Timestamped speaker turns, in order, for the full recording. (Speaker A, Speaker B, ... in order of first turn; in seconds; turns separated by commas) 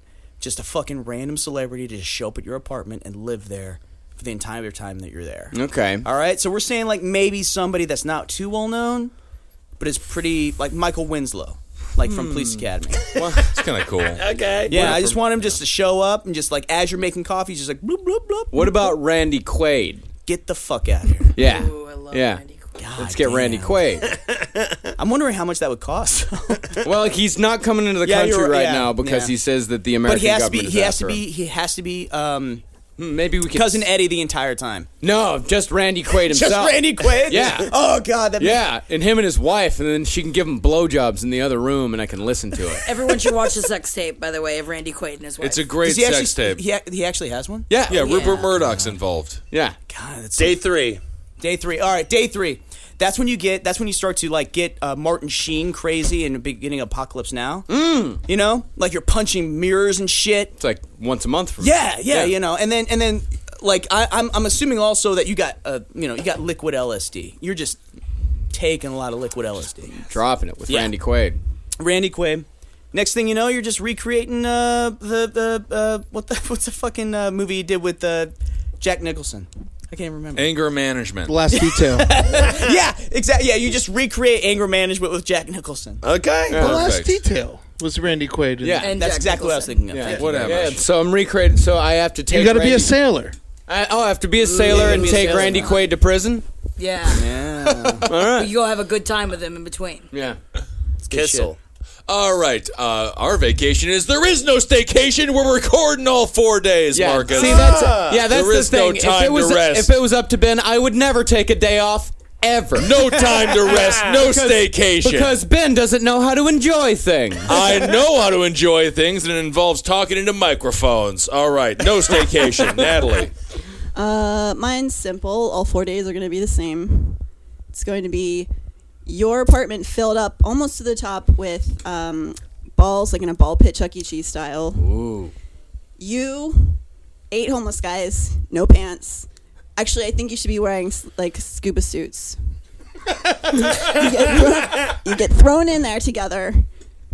Speaker A: 0.4-9.1, Speaker B: 5.5-6.1, Speaker A: 9.8-13.0, Speaker C: 12.0-12.7, Speaker B: 13.1-13.4, Speaker C: 13.4-15.5, Speaker D: 14.1-15.0, Speaker A: 14.7-18.9, Speaker B: 18.5-20.0, Speaker A: 20.2-21.4, Speaker B: 21.4-22.4, Speaker E: 21.4-22.7, Speaker A: 22.8-23.9, Speaker B: 23.0-24.1, Speaker D: 24.1-24.9, Speaker A: 25.0-26.8, Speaker B: 26.8-31.2, Speaker A: 28.0-29.4, Speaker A: 30.1-32.6, Speaker B: 33.0-33.9, Speaker A: 33.5-34.9, Speaker B: 35.0-37.8, Speaker A: 36.2-38.7, Speaker B: 38.4-42.9, Speaker E: 42.9-45.7, Speaker C: 45.4-46.6, Speaker A: 45.8-49.0, Speaker B: 47.7-48.2, Speaker C: 47.9-49.4, Speaker B: 49.5-49.8, Speaker A: 49.9-50.8, Speaker D: 50.4-51.0, Speaker A: 51.4-60.5, Speaker B: 57.7-58.2, Speaker B: 60.6-62.4, Speaker A: 61.6-67.8, Speaker A: 68.5-70.2, Speaker B: 70.0-71.4, Speaker A: 70.7-70.9, Speaker A: 71.8-80.5, Speaker C: 80.3-81.4, Speaker F: 81.3-82.1, Speaker A: 81.5-86.0, Speaker D: 82.3-82.8, Speaker D: 86.0-86.6, Speaker B: 86.5-86.9, Speaker C: 86.6-87.2, Speaker F: 86.6-88.9, Speaker B: 88.6-88.9, Speaker E: 88.8-89.9, Speaker A: 88.9-90.8, Speaker B: 89.9-92.9, Speaker C: 90.0-90.8, Speaker F: 92.3-93.3, Speaker B: 93.7-96.4, Speaker A: 94.5-95.8, Speaker E: 94.5-95.8, Speaker E: 96.8-97.4, Speaker A: 97.1-98.1, Speaker B: 98.0-98.5, Speaker E: 98.2-100.1, Speaker B: 100.1-100.4, Speaker D: 101.0-101.6, Speaker A: 101.1-101.5, Speaker C: 102.1-110.0, Speaker B: 106.9-113.1, Speaker D: 107.3-108.2, Speaker C: 112.8-115.4, Speaker D: 113.1-114.3, Speaker B: 114.3-117.6, Speaker C: 117.5-123.3, Speaker G: 124.0-127.2, Speaker G: 127.7-128.5, Speaker G: 129.1-134.9, Speaker B: 134.8-135.3, Speaker G: 136.0-142.4, Speaker G: 143.3-146.7